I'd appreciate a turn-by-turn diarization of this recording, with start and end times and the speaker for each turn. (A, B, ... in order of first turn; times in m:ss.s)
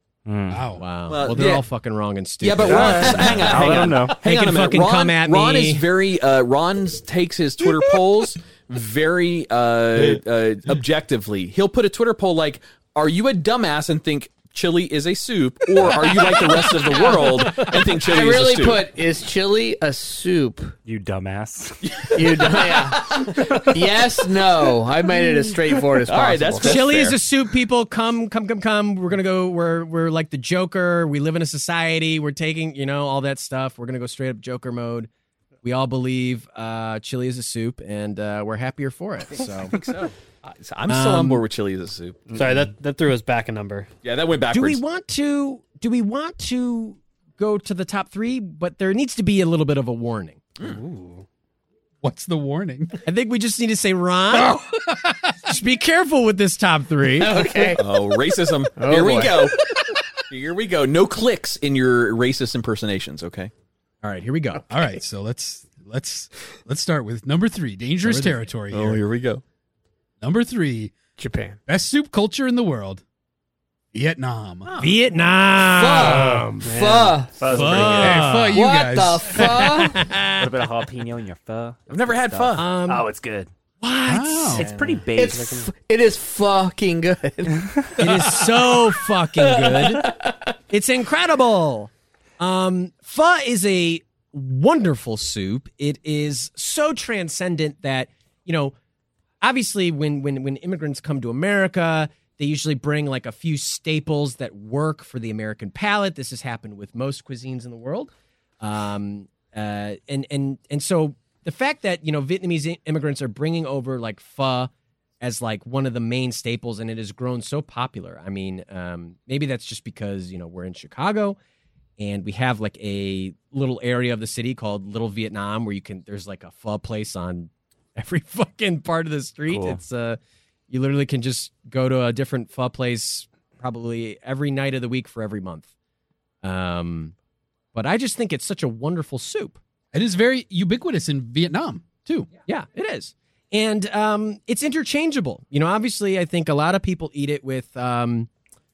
0:00.2-0:00.7 A
0:00.5-0:00.8 B
0:00.8-0:05.8 C
0:01.1-0:01.6 D
0:02.4-0:18.8 D
0:02.6-0:04.2 A
0:18.0-0:20.8 E
0:20.8-0:22.3 A
0:21.8-0:23.8 D
0:22.1-0:23.1 E
0:23.7-0:26.9 E
0:26.0-0:27.2 D
0:26.6-0:35.1 C
0:35.6-0:39.8 C
0:39.7-0:42.3 D
0:40.9-0:41.4 C
0:42.3-0:43.9 F
0:44.0-0:44.8 D
0:44.5-0:50.4 C
0:50.6-0:51.2 F
0:52.0-0:53.0 B
0:53.0-0:54.6 C
0:54.3-0:55.4 B
0:55.4-0:57.7 C
0:57.2-0:57.8 E
0:57.8-0:59.6 D
0:58.8-0:59.5 E
1:00.3-1:03.5 D
1:04.0-1:04.6 C
1:04.7-1:09.0 B
1:08.0-1:08.4 C
1:08.7-1:09.4 D
1:10.2-1:10.9 B
1:11.2-1:11.6 E
1:11.7-1:13.0 B
1:13.9-1:14.7 B
1:14.7-1:15.0 D
1:14.8-1:16.7 C
1:15.6-1:16.4 D
1:15.8-1:17.4 E
1:16.5-1:18.2 F
1:17.4-1:18.4 A
1:17.4-1:18.6 C
1:17.9-1:19.5 B
1:18.5-1:20.1 E
1:19.4-1:20.8 C
1:20.1-1:23.5 A
1:21.9-1:22.6 D
1:22.6-1:23.1 C
1:23.8-1:24.7 C
1:24.0-1:24.7 B
1:24.5-1:25.7 A
1:24.7-1:25.5 F
1:25.1-1:27.7 E
1:28.0-1:30.1 C
1:29.4-1:30.3 E
1:30.7-1:38.7 C
1:39.4-1:48.1 C
1:48.6-1:54.7 C
1:55.2-2:01.4 C
2:02.0-2:15.7 C
2:09.4-2:09.8 A
2:16.4-2:17.1 C
2:17.7-2:19.6 C
2:19.9-2:22.3 B
2:22.5-2:28.3 C